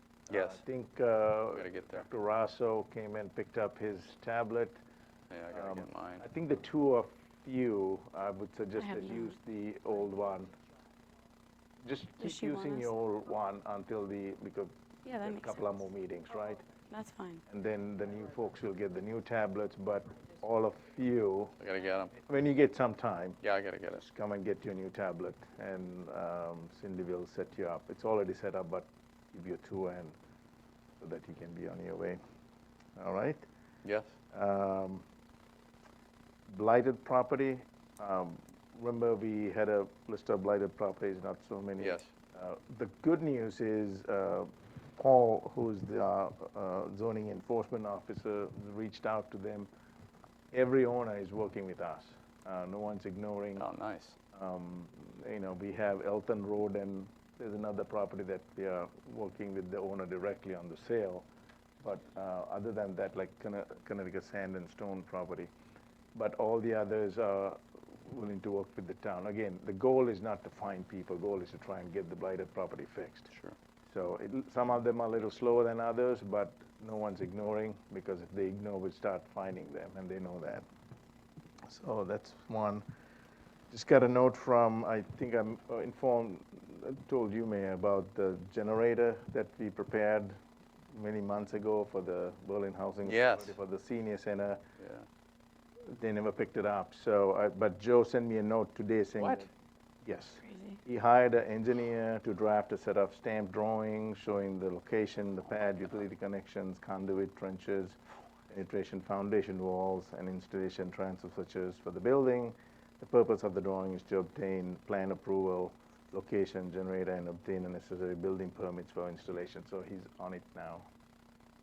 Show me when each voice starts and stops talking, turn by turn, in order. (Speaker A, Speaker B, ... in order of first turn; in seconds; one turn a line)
Speaker A: 0.3-0.6
Speaker B: 0.3-4.8
Speaker A: 1.5-2.0
Speaker A: 5.3-6.2
Speaker B: 5.5-10.5
Speaker C: 8.8-9.3
Speaker B: 11.8-16.6
Speaker C: 12.2-12.9
Speaker C: 15.0-15.7
Speaker C: 16.8-17.4
Speaker B: 17.5-21.5
Speaker A: 21.6-22.1
Speaker B: 22.2-23.4
Speaker A: 23.4-24.0
Speaker B: 23.9-30.1
Speaker B: 31.0-32.2
Speaker B: 33.0-33.4
Speaker A: 33.8-34.1
Speaker B: 34.3-35.0
Speaker B: 36.5-49.7
Speaker A: 41.8-42.1
Speaker B: 50.5-53.6
Speaker A: 53.6-54.2
Speaker B: 54.3-61.2
Speaker B: 61.8-65.5
Speaker B: 66.1-73.3
Speaker B: 73.9-80.6
Speaker B: 81.7-82.8
Speaker B: 83.7-90.3
Speaker B: 90.9-94.6
Speaker A: 93.0-93.5
Speaker A: 94.8-95.0
Speaker B: 95.9-99.5
Speaker A: 99.2-99.5
Speaker B: 100.0-108.0
Speaker C: 100.4-100.8
Speaker B: 108.5-120.9